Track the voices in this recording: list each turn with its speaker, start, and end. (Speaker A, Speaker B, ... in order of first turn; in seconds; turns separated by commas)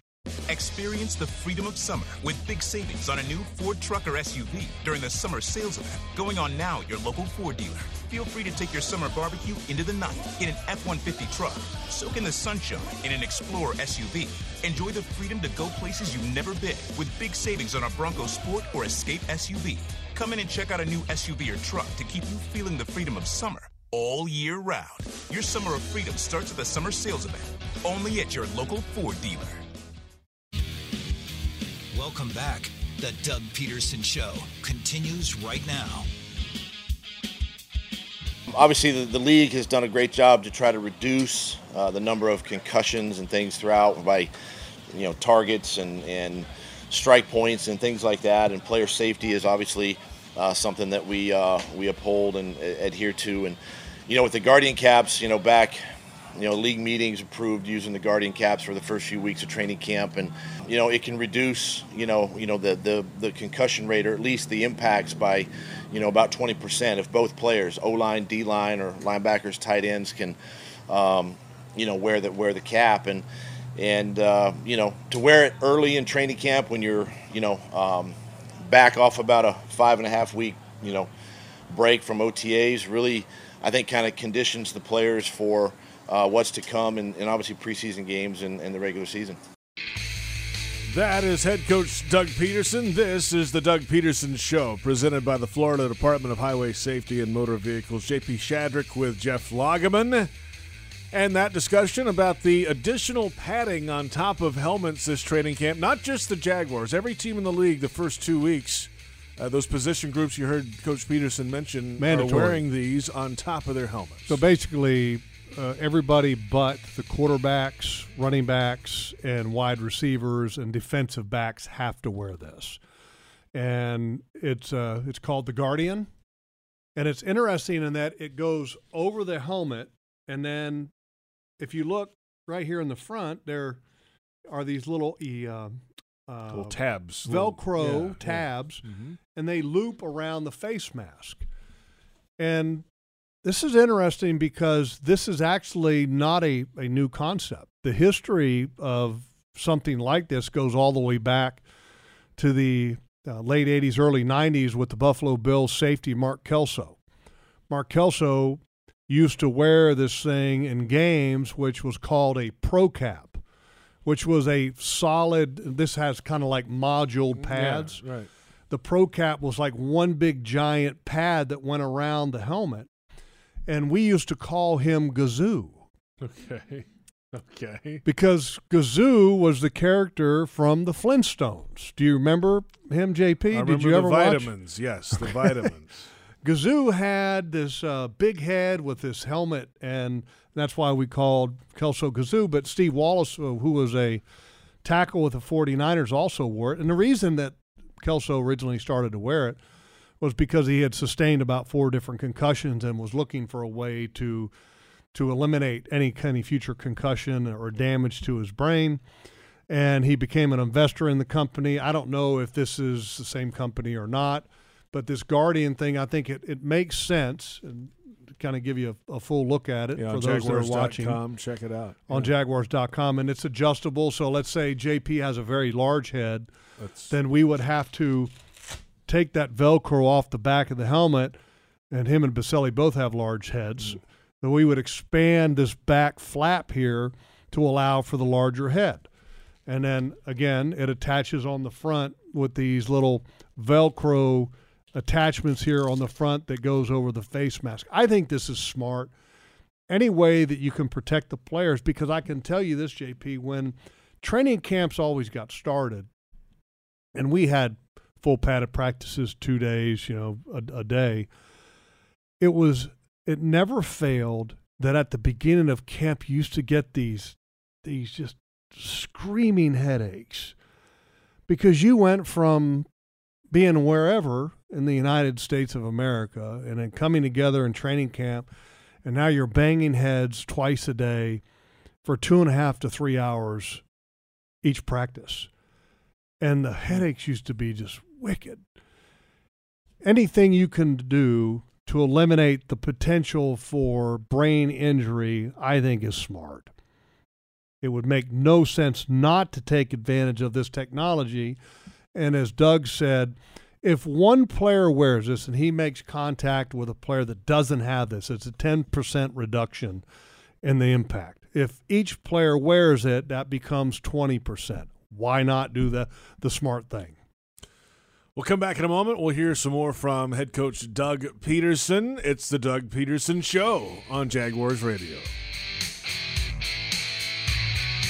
Speaker A: 0.5-29.6, Speaker B: 31.9-36.1, Speaker C: 38.5-44.3, Speaker C: 44.9-55.8, Speaker C: 56.4-70.3, Speaker C: 70.9-73.2, Speaker C: 73.8-81.1, Speaker C: 81.7-89.4, Speaker D: 90.8-100.3, Speaker D: 101.1-114.4, Speaker E: 112.0-112.6, Speaker E: 114.3-122.8, Speaker E: 123.5-126.1, Speaker E: 127.0-130.9, Speaker E: 131.6-133.8, Speaker E: 134.5-141.4, Speaker D: 136.5-139.2, Speaker E: 142.4-142.8, Speaker E: 143.4-151.6, Speaker E: 152.4-157.0, Speaker E: 157.7-163.4, Speaker E: 164.0-168.0, Speaker D: 167.3-168.3, Speaker E: 168.7-172.9, Speaker E: 173.7-175.8, Speaker D: 176.2-178.0, Speaker E: 178.0-184.5, Speaker D: 183.5-186.1, Speaker E: 186.4-194.2, Speaker E: 194.8-199.6, Speaker E: 200.2-204.5, Speaker E: 205.1-209.0, Speaker E: 209.7-221.2, Speaker D: 219.9-222.3, Speaker E: 222.1-226.5, Speaker D: 226.8-227.1, Speaker E: 227.1-228.3, Speaker E: 229.1-231.4, Speaker E: 231.9-239.1, Speaker E: 239.7-249.1, Speaker E: 249.9-256.1, Speaker E: 257.1-261.3, Speaker E: 262.4-270.5, Speaker E: 271.5-272.9, Speaker E: 273.5-278.5, Speaker E: 279.0-281.4, Speaker E: 282.0-283.8, Speaker E: 284.6-285.5, Speaker E: 286.4-288.6, Speaker E: 290.0-296.7, Speaker E: 297.8-301.6, Speaker E: 302.1-310.0, Speaker E: 310.6-317.1, Speaker D: 318.3-325.3